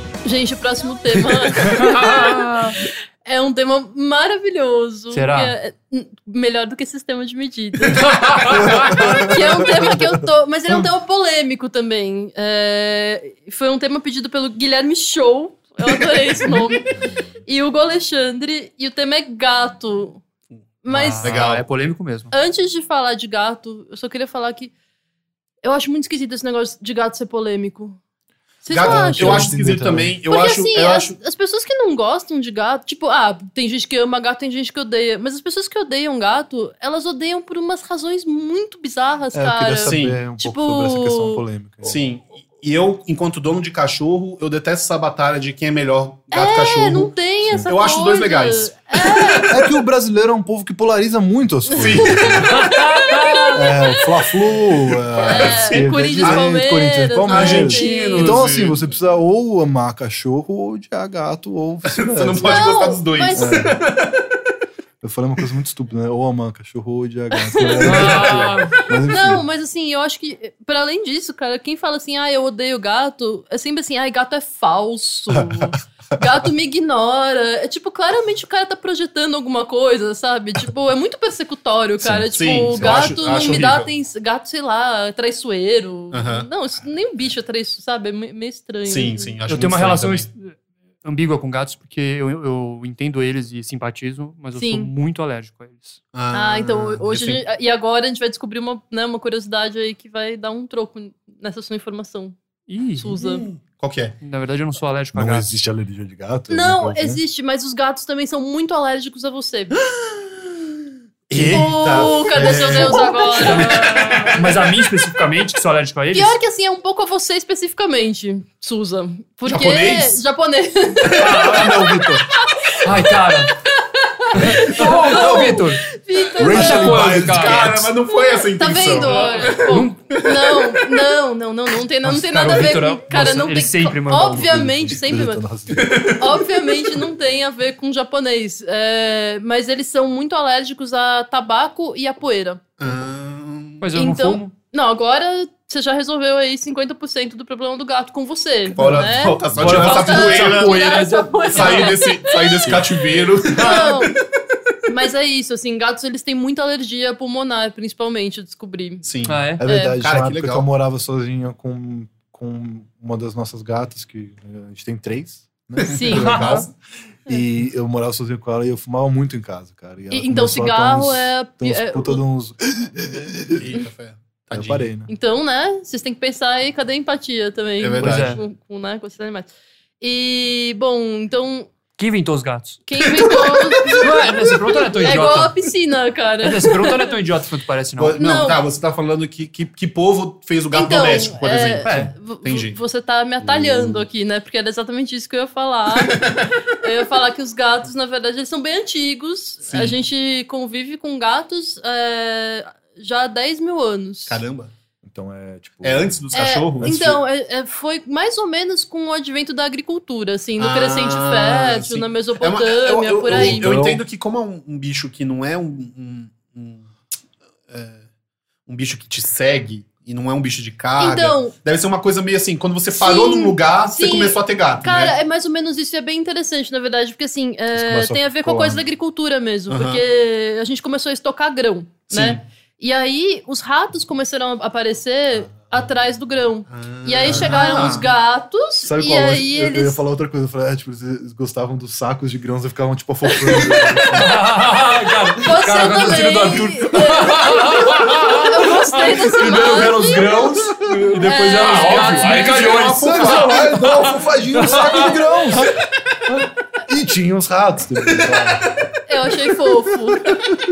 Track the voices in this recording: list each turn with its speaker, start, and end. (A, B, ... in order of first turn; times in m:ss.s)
0:00.2-0:16.9 A
0:01.7-0:02.8 B
0:05.1-0:05.5 B
0:07.9-0:09.3 B
0:08.6-0:10.0 C
0:17.4-0:20.2 A
0:20.8-0:21.2 A
0:20.9-0:22.3 B
0:21.2-0:21.6 D
0:22.3-0:24.7 A
0:25.6-0:28.0 A
0:28.6-0:29.5 A
0:28.7-0:31.2 D
0:28.8-0:30.1 C
0:30.3-0:41.4 A
0:39.3-0:42.0 C
0:39.9-0:40.2 D
0:41.8-0:47.1 D
0:46.3-0:49.6 A
0:47.7-0:49.5 D
0:49.5-0:52.5 C
0:51.7-0:52.4 D
0:52.0-0:52.3 A
0:52.5-0:53.6 B
0:53.0-0:53.4 A
0:53.5-1:02.7 C
0:55.1-0:56.5 D
0:55.3-0:58.4 A
0:57.2-0:58.9 D
1:01.9-1:04.2 D
1:02.4-1:03.7 A
1:03.3-1:03.8 C
1:05.0-1:09.4 C
1:07.4-1:08.4 A
1:07.8-1:08.7 B
1:09.1-1:29.3 A
1:15.3-1:15.7 C
1:22.0-1:23.0 C
1:22.3-1:23.9 D
1:26.1-1:26.5 D
1:28.8-1:30.3 D
1:29.5-1:36.0 B
1:34.6-1:34.9 A
1:36.1-1:37.4 D
1:36.3-1:42.4 A
1:42.7-1:43.2 B
1:43.0-1:43.4 A
1:43.2-1:44.2 D
1:44.2-1:45.5 B
1:45.1-1:47.2 C
1:46.5-1:49.8 A
1:51.3-1:54.4 D
1:51.3-1:52.9 C
1:51.5-1:54.4 A
1:53.3-1:56.4 B
1:56.1-2:02.6 A
1:59.4-2:00.2 D
2:01.1-2:02.0 D
2:01.2-2:01.8 B
2:01.5-2:02.2 C
2:02.8-2:03.5 B
2:04.3-2:07.0 A
2:04.4-2:05.8 B
2:04.6-2:05.6 D
2:06.4-2:07.9 C
2:06.4-2:07.7 B
2:06.8-2:09.6 D
2:08.3-2:15.4 A
2:09.1-2:10.0 B
2:10.2-2:10.8 D
2:12.1-2:14.5 B
2:14.3-2:16.1 C
2:15.7-2:16.3 D
2:16.2-2:22.6 A
2:22.8-2:23.8 D
2:23.8-2:24.5 B
2:23.9-2:34.2 A
2:28.8-2:31.0 D
2:28.8-2:29.1 C
2:29.6-2:31.9 B
2:31.5-2:34.2 D
2:33.5-2:33.9 B
2:34.9-2:39.0 A
2:39.0-2:39.4 D
2:39.3-2:39.6 B
2:39.6-2:46.7 C
2:39.6-2:40.0 A
2:40.0-2:40.6 D
2:45.8-2:46.7 D
2:45.9-2:46.5 A
2:46.2-2:46.7 B
2:47.3-2:53.6 C
2:50.1-2:52.2 A
2:53.6-2:54.9 D
2:54.5-2:55.1 C
2:55.1-3:01.7 A
2:57.8-2:58.4 D
2:58.0-2:58.4 B
3:02.0-3:02.9 B
3:02.9-3:07.1 A
3:03.1-3:04.0 D
3:04.0-3:05.5 B
3:06.4-3:08.2 B
3:08.0-3:12.8 D
3:08.2-3:08.6 A
3:10.7-3:16.2 A
3:11.9-3:12.1 B
3:13.4-3:14.1 C
3:15.9-3:16.4 D
3:16.8-3:24.4 A
3:19.6-3:20.0 D
3:24.3-3:24.7 D
3:25.0-3:26.2 C
3:25.8-3:27.2 D
3:26.3-3:33.8 A
3:26.8-3:27.2 C
3:30.6-3:36.9 D
3:33.3-3:34.0 C
3:37.7-3:38.0 D
3:38.7-3:45.1 D
3:41.0-3:41.5 A
3:42.9-4:00.0 A
3:47.7-3:48.8 C
3:49.7-3:50.0 D
3:52.1-3:52.4 D
3:56.7-3:58.1 D
3:57.3-3:58.1 B
3:58.8-4:04.4 C
4:03.3-4:03.8 A
4:04.2-4:15.6 B
4:05.4-4:10.3 A
4:11.2-4:12.7 A
4:11.6-4:13.6 D
4:12.3-4:15.7 C
4:16.9-4:18.7 C
4:18.6-4:18.9 D
4:19.1-4:20.5 A